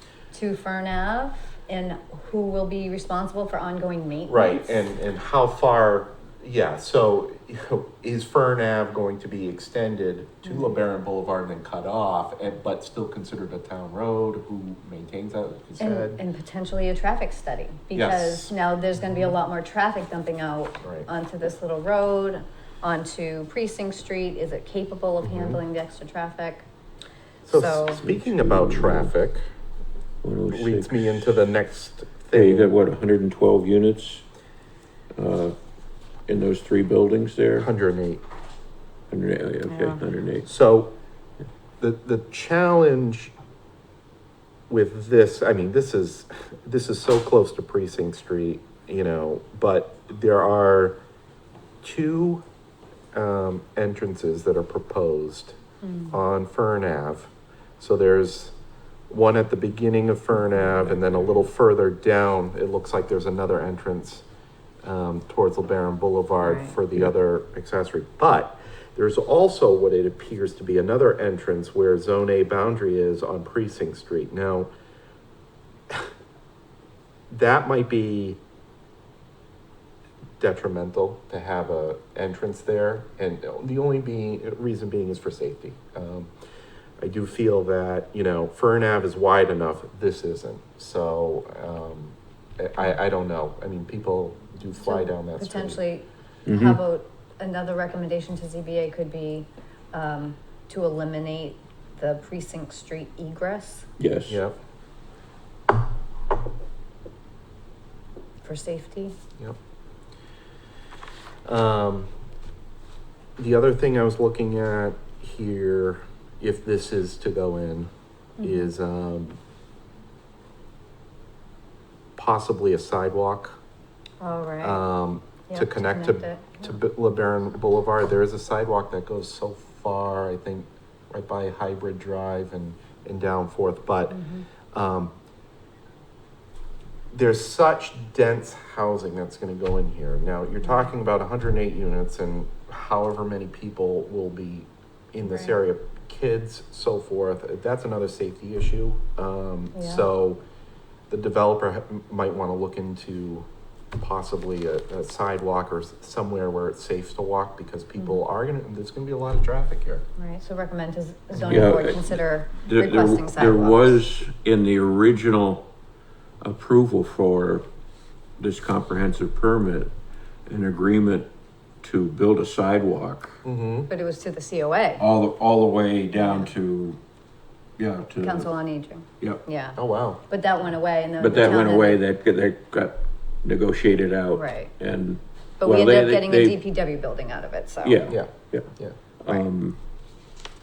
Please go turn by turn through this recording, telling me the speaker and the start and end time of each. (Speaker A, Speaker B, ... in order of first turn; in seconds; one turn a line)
Speaker A: 0.3-4.8
Speaker B: 4.3-16.2
Speaker A: 10.4-10.7
Speaker A: 15.8-26.7
Speaker B: 17.9-19.3
Speaker B: 20.8-21.1
Speaker B: 25.2-25.6
Speaker B: 27.4-29.4
Speaker A: 27.5-28.0
Speaker C: 28.0-29.1
Speaker C: 30.2-31.4
Speaker B: 30.5-32.8
Speaker C: 32.3-34.2
Speaker C: 35.2-35.6
Speaker C: 36.3-37.7
Speaker B: 37.6-38.2
Speaker C: 39.1-40.5
Speaker A: 39.7-40.0
Speaker B: 40.5-40.9
Speaker B: 41.8-43.3
Speaker B: 44.7-51.0
Speaker B: 51.8-52.4
Speaker B: 53.1-55.6
Speaker A: 55.8-56.2
Speaker B: 56.1-58.5
Speaker B: 59.1-64.2
Speaker C: 60.8-61.4
Speaker B: 64.8-74.7
Speaker A: 66.4-66.8
Speaker B: 77.3-78.4
Speaker B: 80.4-86.3
Speaker B: 87.0-95.8
Speaker A: 94.8-103.9
Speaker C: 96.5-96.8
Speaker C: 104.0-104.4
Speaker B: 104.3-104.6
Speaker A: 108.4-109.2
Speaker B: 111.5-112.1
Speaker B: 113.4-117.9
Speaker A: 118.4-118.7
Speaker B: 118.4-119.4
Speaker B: 122.2-123.6
Speaker A: 124.2-124.9
Speaker B: 124.6-134.2
Speaker A: 125.5-126.8
Speaker A: 134.1-134.5
Speaker B: 134.7-135.1
Speaker B: 137.1-150.4
Speaker A: 140.6-140.9
Speaker A: 145.3-145.6
Speaker A: 149.7-150.1
Speaker B: 151.1-160.1
Speaker A: 160.2-164.0
Speaker B: 161.3-161.9
Speaker C: 161.5-165.7
Speaker C: 166.4-167.7
Speaker C: 168.4-169.9
Speaker C: 170.5-171.3
Speaker C: 171.8-173.4
Speaker B: 173.4-173.9
Speaker A: 173.9-175.0
Speaker C: 175.0-177.0
Speaker A: 176.2-176.5
Speaker C: 177.8-178.5
Speaker A: 178.2-182.0
Speaker B: 179.8-180.2
Speaker C: 181.2-186.6
Speaker A: 184.3-184.7
Speaker A: 185.6-188.1
Speaker C: 187.8-188.7
Speaker B: 188.1-189.0
Speaker C: 189.2-189.8